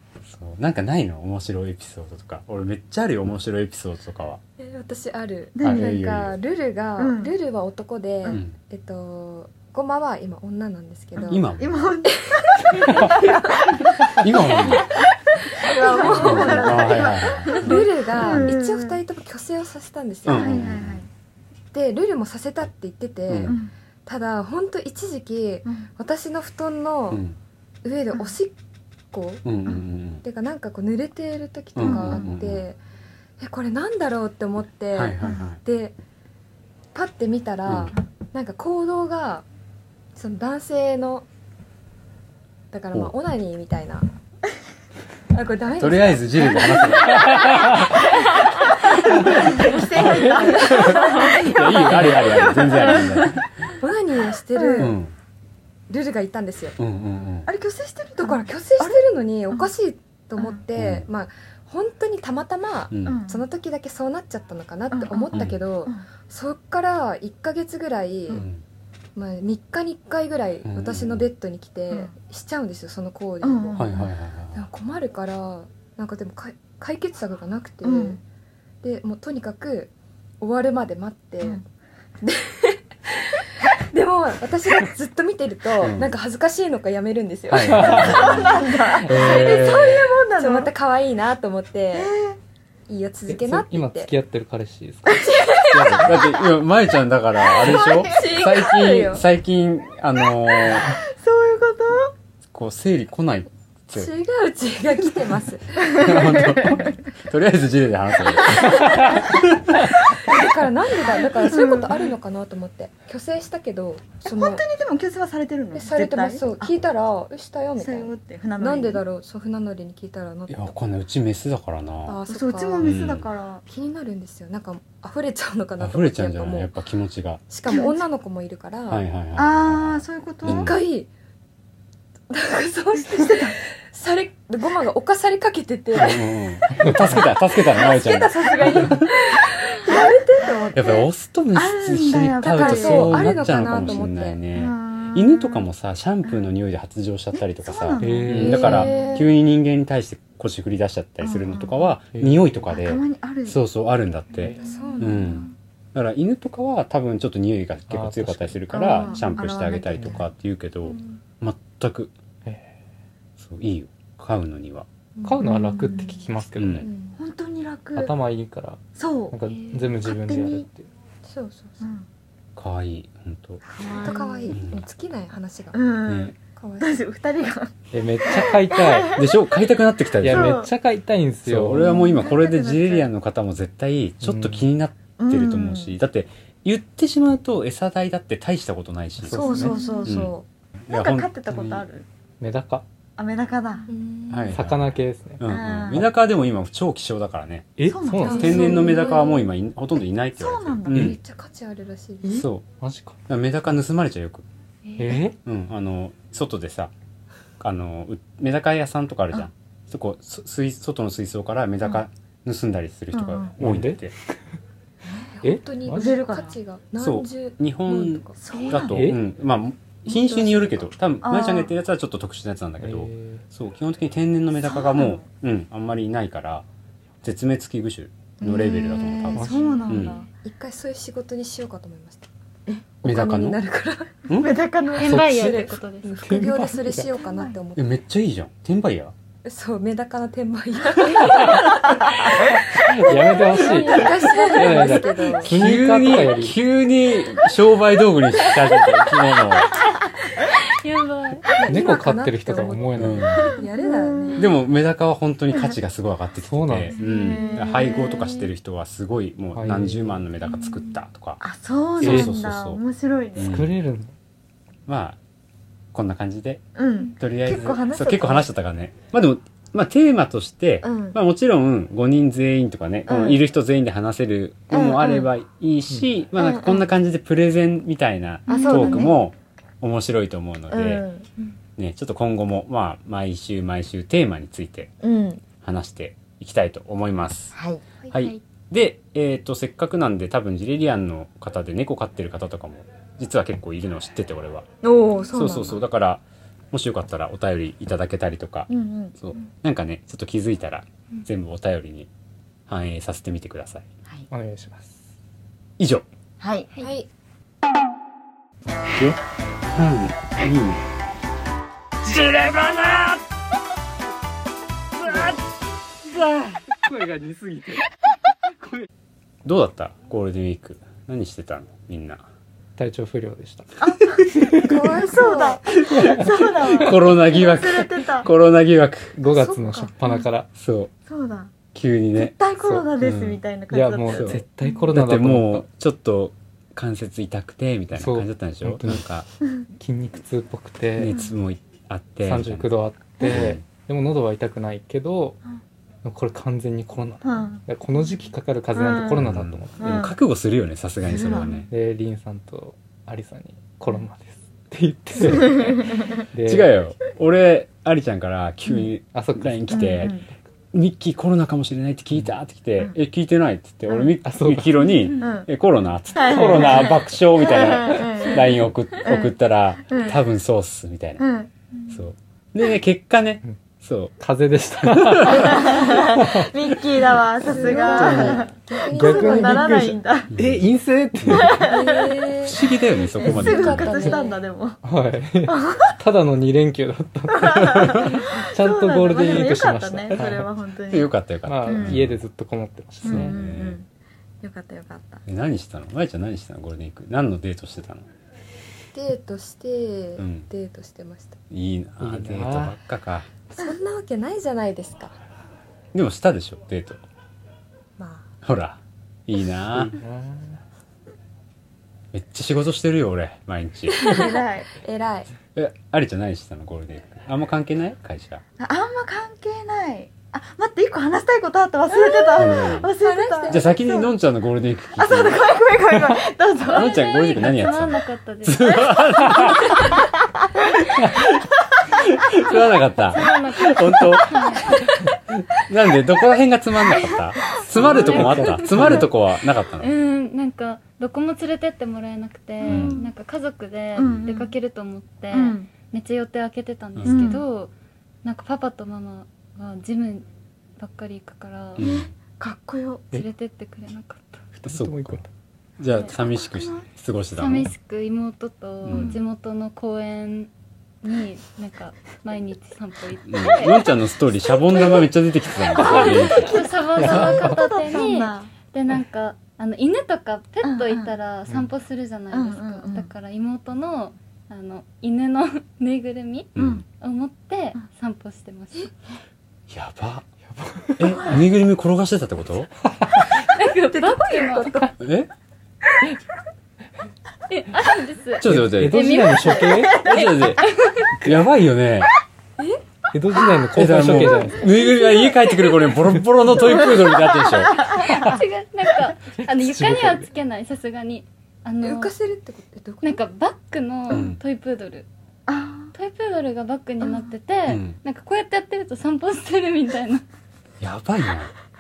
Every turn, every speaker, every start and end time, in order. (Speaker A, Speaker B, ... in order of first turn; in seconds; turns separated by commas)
Speaker A: 0.3-4.4, Speaker B: 4.6-11.5, Speaker C: 5.5-6.0, Speaker A: 5.6-6.3, Speaker C: 7.0-7.3, Speaker A: 8.3-8.6, Speaker C: 11.2-15.0, Speaker A: 11.2-11.9, Speaker B: 12.1-14.9, Speaker A: 12.9-13.3, Speaker A: 14.1-14.9, Speaker B: 15.4-20.7, Speaker C: 15.5-19.0, Speaker A: 16.0-18.6, Speaker A: 20.3-21.1, Speaker C: 20.3-21.1, Speaker B: 21.7-27.2, Speaker A: 23.3-23.6, Speaker C: 23.4-23.7, Speaker A: 27.1-27.4, Speaker B: 27.8-28.5, Speaker B: 29.1-29.4, Speaker A: 29.4-30.2, Speaker B: 30.2-32.8, Speaker A: 31.8-32.6, Speaker C: 31.8-32.3, Speaker B: 33.4-36.0, Speaker A: 34.9-35.6, Speaker B: 36.9-39.5, Speaker A: 37.7-38.0, Speaker B: 40.1-41.3, Speaker B: 42.7-44.1, Speaker B: 45.3-51.8, Speaker A: 45.8-47.8, Speaker C: 49.0-53.1, Speaker A: 49.4-53.5, Speaker D: 51.8-52.2, Speaker B: 52.4-53.0, Speaker B: 53.8-55.0, Speaker C: 54.5-55.0, Speaker A: 54.8-55.1, Speaker B: 55.9-56.8, Speaker A: 56.8-57.5, Speaker C: 57.5-59.7, Speaker B: 58.2-68.5, Speaker A: 60.8-61.1, Speaker A: 62.9-63.2, Speaker C: 63.0-63.4, Speaker C: 64.9-66.0, Speaker A: 65.3-65.6, Speaker A: 68.3-68.6, Speaker B: 69.2-78.2, Speaker A: 70.7-71.3, Speaker C: 73.4-74.1, Speaker A: 73.8-74.6, Speaker C: 77.8-78.2, Speaker B: 78.8-81.6, Speaker B: 82.2-92.1, Speaker A: 85.8-86.1, Speaker A: 87.5-90.1, Speaker D: 87.7-88.3, Speaker C: 87.9-90.7, Speaker C: 91.9-92.4, Speaker B: 92.9-94.1, Speaker D: 93.3-95.3, Speaker B: 95.1-96.5, Speaker A: 95.7-101.0, Speaker C: 97.5-98.4, Speaker B: 97.7-99.2, Speaker C: 100.5-102.1, Speaker A: 102.5-104.1, Speaker B: 103.9-106.2, Speaker C: 105.8-106.9, Speaker A: 105.9-109.7, Speaker C: 108.5-108.8, Speaker B: 108.8-109.3, Speaker B: 110.1-114.6, Speaker C: 111.1-112.1, Speaker C: 114.2-116.7, Speaker B: 115.7-120.7, Speaker C: 117.8-119.0, Speaker A: 120.5-122.2, Speaker B: 122.1-123.0, Speaker C: 122.3-123.6, Speaker A: 122.8-123.3, Speaker B: 123.7-126.7, Speaker A: 125.8-127.4, Speaker B: 127.5-129.0, Speaker C: 127.7-128.0, Speaker A: 128.9-130.8, Speaker C: 129.4-130.7, Speaker B: 130.4-131.1, Speaker B: 132.3-140.8, Speaker C: 133.1-133.5, Speaker A: 135.9-139.1, Speaker C: 138.4-138.9, Speaker C: 139.9-143.4, Speaker A: 140.7-162.1, Speaker B: 142.4-144.4, Speaker C: 144.5-145.7, Speaker C: 147.3-149.3, Speaker D: 148.0-148.9, Speaker B: 148.3-149.3, Speaker C: 151.2-151.9, Speaker D: 152.1-152.6, Speaker C: 152.7-153.6, Speaker B: 154.6-155.5, Speaker C: 155.0-155.3, Speaker D: 157.9-158.8, Speaker C: 158.7-160.3, Speaker D: 162.4-162.7, Speaker A: 163.4-164.9, Speaker B: 165.2-166.2, Speaker D: 165.2-166.9, Speaker C: 165.4-166.2, Speaker A: 166.6-166.9, Speaker B: 166.8-167.2, Speaker C: 167.2-168.2, Speaker D: 168.0-170.9, Speaker C: 169.0-169.4, Speaker E: 169.5-169.9, Speaker C: 170.0-170.7, Speaker B: 171.3-171.8, Speaker C: 171.8-172.1, Speaker A: 172.6-173.6, Speaker C: 173.7-174.6, Speaker B: 174.0-175.8, Speaker A: 174.5-174.8, Speaker C: 175.7-177.7, Speaker A: 176.1-176.3, Speaker B: 176.6-177.0, Speaker D: 177.9-179.2, Speaker C: 178.2-179.5, Speaker A: 179.2-180.6, Speaker D: 180.2-182.0, Speaker C: 180.2-180.7, Speaker A: 181.4-189.4, Speaker C: 181.8-183.1, Speaker D: 184.2-184.7, Speaker C: 185.2-186.0, Speaker D: 189.2-189.7, Speaker C: 189.3-192.1, Speaker B: 189.4-190.4, Speaker A: 190.1-190.3, Speaker A: 190.8-191.9, Speaker D: 192.4-192.8, Speaker C: 193.2-193.9, Speaker B: 193.9-194.6, Speaker A: 194.3-197.7, Speaker D: 194.5-196.1, Speaker C: 195.5-196.0, Speaker D: 197.8-198.8, Speaker C: 197.9-199.2, Speaker B: 198.2-199.5, Speaker A: 198.3-201.2, Speaker C: 200.3-201.2, Speaker B: 200.9-202.5, Speaker A: 202.3-202.7, Speaker D: 202.8-203.2, Speaker A: 203.3-204.4, Speaker E: 204.9-205.2, Speaker D: 205.0-205.4, Speaker A: 205.4-206.9, Speaker A: 207.6-214.1, Speaker C: 213.1-213.5, Speaker D: 213.6-214.4, Speaker C: 215.1-215.3, Speaker B: 215.4-218.4, Speaker D: 215.4-216.2, Speaker C: 215.9-216.6, Speaker A: 217.0-226.7, Speaker C: 218.4-219.1, Speaker D: 218.8-219.2, Speaker C: 220.1-221.7, Speaker D: 222.8-223.4, Speaker C: 224.6-225.2, Speaker A: 227.2-230.2, Speaker C: 228.4-230.3, Speaker D: 229.3-229.9, Speaker B: 230.4-232.3, Speaker B: 233.0-234.2, Speaker A: 233.0-233.6, Speaker A: 234.3-234.6, Speaker C: 234.3-235.2, Speaker E: 235.0-236.3, Speaker B: 235.0-237.8, Speaker D: 235.1-235.7, Speaker D: 236.2-237.1, Speaker C: 237.2-237.5, Speaker A: 237.8-239.1, Speaker B: 239.4-245.6, Speaker D: 242.8-246.6, Speaker A: 245.4-249.8, Speaker E: 249.7-250.1, Speaker E: 250.7-251.6, Speaker B: 251.6-254.5, Speaker D: 251.7-253.3, Speaker A: 253.0-253.5, Speaker C: 253.6-254.6, Speaker A: 254.4-261.4, Speaker D: 256.5-256.9, Speaker C: 256.9-258.3, Speaker E: 257.0-258.5, Speaker D: 259.6-260.2, Speaker E: 260.6-261.0, Speaker C: 261.4-263.6, Speaker A: 262.0-262.8, Speaker D: 262.0-262.4, Speaker A: 263.4-263.7, Speaker D: 263.4-264.1, Speaker A: 264.9-265.2, Speaker A: 265.9-281.0, Speaker C: 266.8-268.5, Speaker C: 270.8-271.2, Speaker C: 273.1-273.4, Speaker C: 274.7-275.3, Speaker C: 276.4-276.9, Speaker E: 278.5-279.0, Speaker C: 278.5-279.1, Speaker C: 280.7-281.3, Speaker A: 281.8-284.9, Speaker C: 285.0-285.4, Speaker A: 285.6-287.6, Speaker C: 287.5-287.8, Speaker A: 288.1-294.7, Speaker E: 288.1-288.4, Speaker C: 294.8-295.8, Speaker B: 295.2-295.6, Speaker A: 295.3-302.1, Speaker C: 298.7-299.2, Speaker A: 302.7-303.9, Speaker D: 304.3-305.0, Speaker A: 305.8-306.1, Speaker C: 306.4-306.7, Speaker B: 306.8-307.1, Speaker A: 309.7-310.8, Speaker D: 312.1-313.1, Speaker D: 315.0-315.3, Speaker D: 316.2-317.8, Speaker A: 319.4-322.2, Speaker D: 322.8-324.7, Speaker C: 323.8-328.3, Speaker B: 324.6-325.6, Speaker A: 325.9-329.2, Speaker D: 325.9-326.3, Speaker D: 329.1-330.5, Speaker B: 329.3-329.9, Speaker A: 330.6-330.9, Speaker C: 331.1-331.5, Speaker A: 331.7-332.4, Speaker C: 332.2-334.4, Speaker A: 333.0-333.4, Speaker D: 333.7-335.7, Speaker A: 334.1-339.3, Speaker D: 337.9-339.1, Speaker D: 339.7-341.1, Speaker A: 341.0-342.7, Speaker D: 342.2-345.4, Speaker A: 343.2-343.6, Speaker D: 346.0-349.8, Speaker C: 347.2-347.6, Speaker C: 348.7-349.3, Speaker A: 349.2-351.7, Speaker C: 349.8-350.1, Speaker C: 351.1-351.6, Speaker D: 351.7-356.7, Speaker C: 355.2-356.2, Speaker A: 356.4-360.2, Speaker D: 359.1-360.1, Speaker C: 359.7-360.2, Speaker A: 360.7-371.2, Speaker C: 363.9-364.1, Speaker D: 364.2-364.9, Speaker C: 365.2-365.5, Speaker C: 366.1-369.4, Speaker D: 366.3-367.1, Speaker C: 369.9-370.2, Speaker C: 371.2-371.5, Speaker A: 371.9-374.1, Speaker D: 374.2-376.7, Speaker A: 374.9-375.6, Speaker C: 375.4-380.3, Speaker B: 377.5-379.9, Speaker D: 377.5-381.7, Speaker A: 380.3-380.6, Speaker A: 381.2-381.6, Speaker C: 381.3-382.4, Speaker B: 381.7-382.6, Speaker A: 382.4-384.1, Speaker C: 383.2-384.8, Speaker B: 383.3-384.4, Speaker E: 383.5-384.2, Speaker D: 384.8-390.5, Speaker C: 385.5-385.9, Speaker C: 387.3-391.1, Speaker A: 387.6-388.1, Speaker A: 390.9-392.2, Speaker D: 391.5-393.4, Speaker C: 391.6-392.0, Speaker C: 393.0-393.9, Speaker A: 393.0-393.8, Speaker C: 394.4-395.2, Speaker A: 395.3-398.1, Speaker B: 398.9-401.4, Speaker A: 400.2-400.5, Speaker A: 401.5-403.3, Speaker D: 402.0-402.8, Speaker B: 403.5-405.1, Speaker A: 405.9-407.0, Speaker B: 408.0-408.3, Speaker A: 408.4-410.0, Speaker D: 409.7-410.6, Speaker A: 412.1-414.1, Speaker B: 414.0-415.3, Speaker C: 414.0-414.8, Speaker A: 415.6-418.4, Speaker C: 418.6-424.0, Speaker B: 421.9-424.1, Speaker A: 422.4-422.9, Speaker A: 423.5-425.4, Speaker C: 425.0-427.0, Speaker E: 426.7-430.1, Speaker A: 426.7-429.9, Speaker A: 431.0-431.4, Speaker A: 432.0-434.7, Speaker E: 433.1-434.8, Speaker A: 435.6-439.9, Speaker D: 437.8-439.1, Speaker E: 437.8-439.0, Speaker E: 439.8-447.7, Speaker A: 442.6-443.0, Speaker C: 442.6-443.1, Speaker C: 444.0-444.5, Speaker A: 444.0-444.3, Speaker C: 445.3-445.7, Speaker A: 447.0-447.3, Speaker C: 447.1-447.4, Speaker E: 448.2-450.3, Speaker E: 450.8-451.9, Speaker A: 451.8-452.1, Speaker C: 451.8-453.1, Speaker E: 453.1-454.4, Speaker D: 454.6-455.3, Speaker A: 454.6-455.2, Speaker A: 455.8-457.7, Speaker C: 456.1-456.9, Speaker E: 457.4-460.5, Speaker A: 458.8-459.2, Speaker E: 461.0-464.0, Speaker A: 463.3-466.6, Speaker C: 465.8-468.5, Speaker E: 465.8-478.9, Speaker D: 467.0-467.6, Speaker C: 470.6-471.1, Speaker C: 472.3-473.1, Speaker A: 476.6-476.8, Speaker C: 476.6-476.8, Speaker A: 479.7-480.3, Speaker D: 480.5-481.2, Speaker A: 481.0-482.7, Speaker D: 483.0-483.3, Speaker E: 483.4-484.9, Speaker B: 483.9-484.9, Speaker A: 485.0-485.3, Speaker E: 487.5-491.2, Speaker A: 488.4-489.2, Speaker D: 488.4-490.0, Speaker C: 489.7-490.2, Speaker A: 490.0-490.7, Speaker A: 491.2-492.1, Speaker D: 493.1-494.8, Speaker A: 493.7-498.1, Speaker C: 497.6-498.1, Speaker E: 497.9-502.1, Speaker D: 499.4-500.3, Speaker B: 501.8-503.2, Speaker E: 503.0-505.1, Speaker A: 504.1-504.4, Speaker C: 505.5-505.9, Speaker E: 505.9-510.2, Speaker A: 507.7-508.0, Speaker A: 510.8-511.5